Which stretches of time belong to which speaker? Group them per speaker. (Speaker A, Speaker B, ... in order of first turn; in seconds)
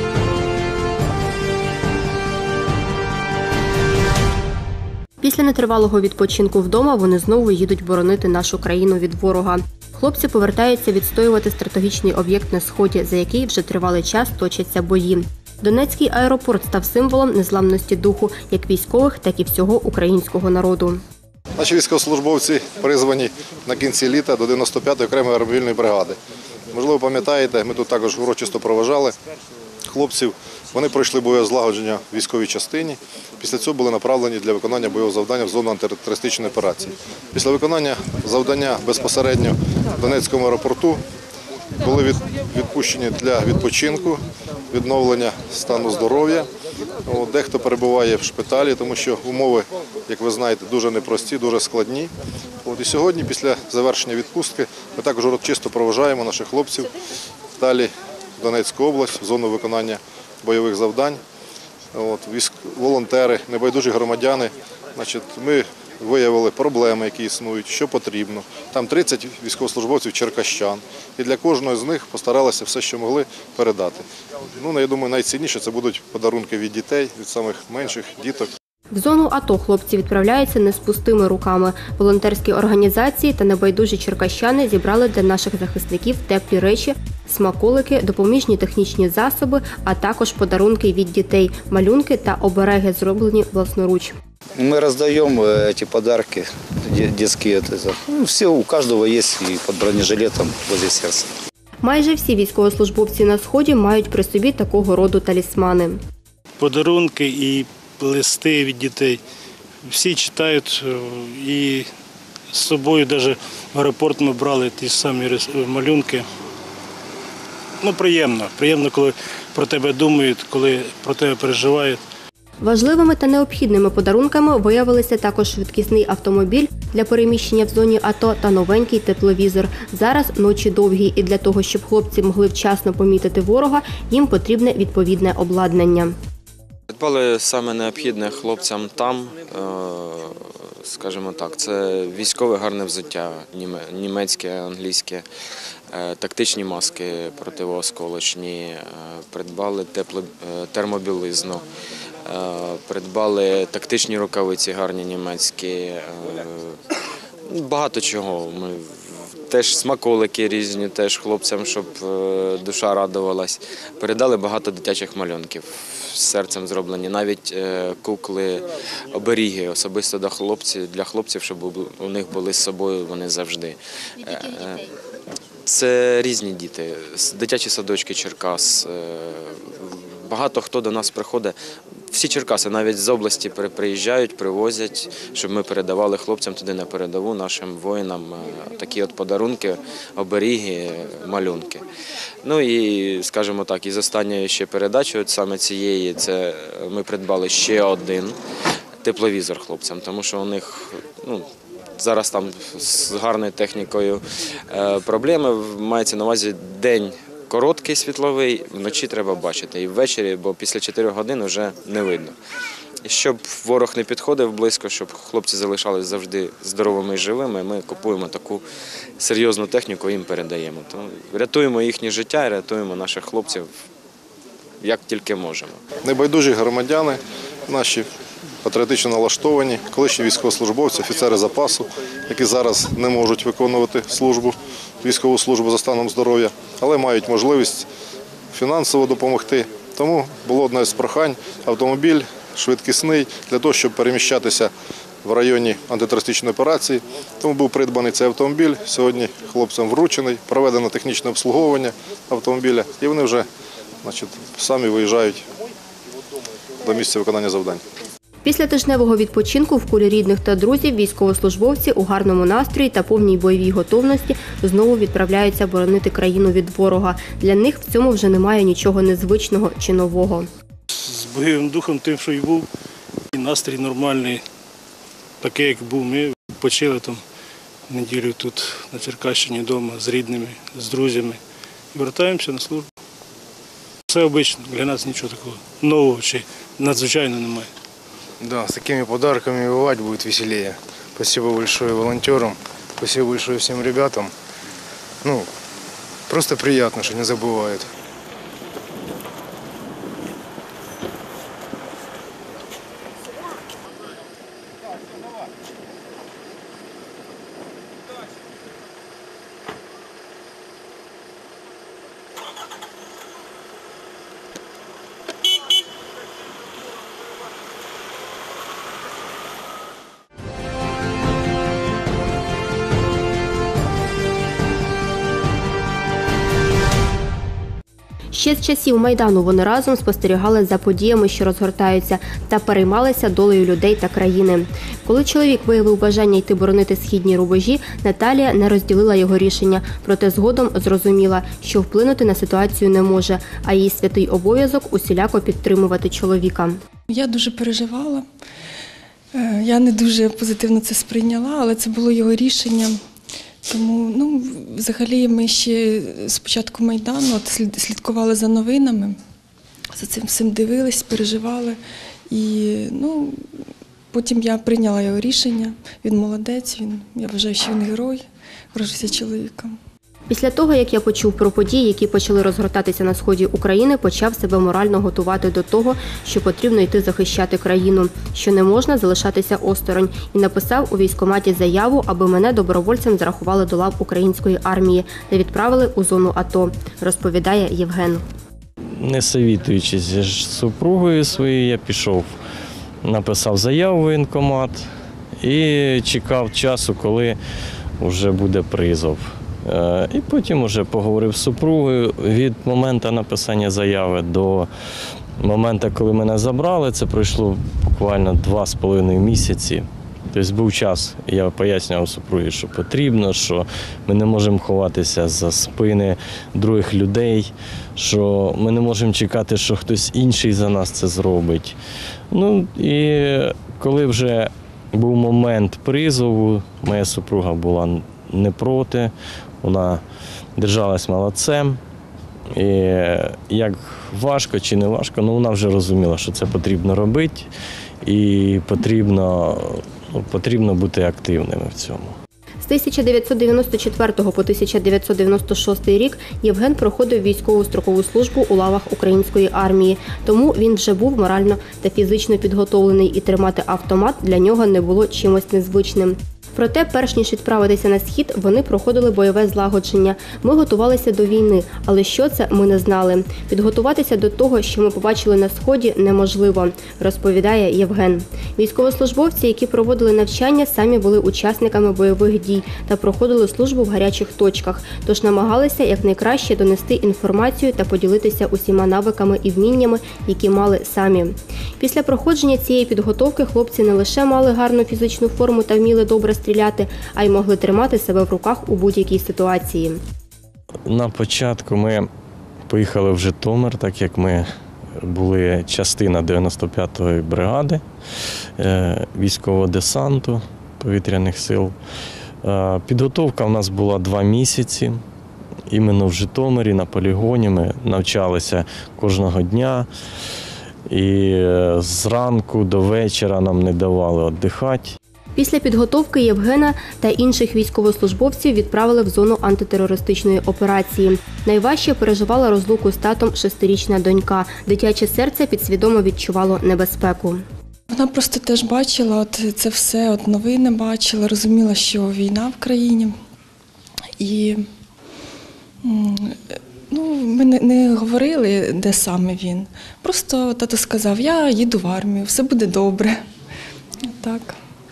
Speaker A: 5.2-21.0, 78.9-94.2, 101.8-106.0, 122.6-136.1, 258.4-270.5, 328.3-346.8, 370.3-388.2, 442.6-490.0, 515.4-527.4
Speaker B: 21.6-26.2, 26.7-29.1, 29.9-41.0, 41.8-46.5, 47.0-52.1, 52.6-56.9, 57.6-61.2, 61.9-74.0, 74.6-78.5, 226.0-228.1, 228.6-237.9, 238.5-244.7, 245.2-253.4, 254.0-255.4, 256.8-257.8
Speaker C: 94.6-101.3
Speaker D: 106.6-109.2, 109.8-111.9, 112.5-116.2, 117.8-122.0, 271.0-272.7, 273.3-274.4, 275.4-277.2, 277.9-281.4, 281.9-282.9, 284.1-287.7
Speaker E: 136.9-140.3, 140.8-145.2, 145.9-151.6, 152.2-156.8, 157.5-174.9, 175.7-181.5, 182.1-191.8, 192.4-198.4, 199.0-201.4, 202.0-212.3, 213.0-218.6, 219.2-223.7, 224.8-225.8
Speaker F: 288.4-294.3, 296.3-297.9
Speaker G: 347.1-348.2, 349.3-353.0, 353.6-359.2, 359.9-361.8, 362.3-363.4, 364.1-369.7, 527.9-533.1, 534.2-534.6, 535.8-543.2, 544.1-544.5
Speaker H: 389.0-392.3, 393.0-394.9, 395.4-397.4, 398.0-404.7, 405.4-421.8, 422.3-430.0, 430.6-431.8, 432.5-437.5, 438.0-442.1, 490.9-492.1, 492.7-494.5, 495.0-497.8, 498.6-501.8, 502.4-505.0, 505.7-509.9, 510.9-515.0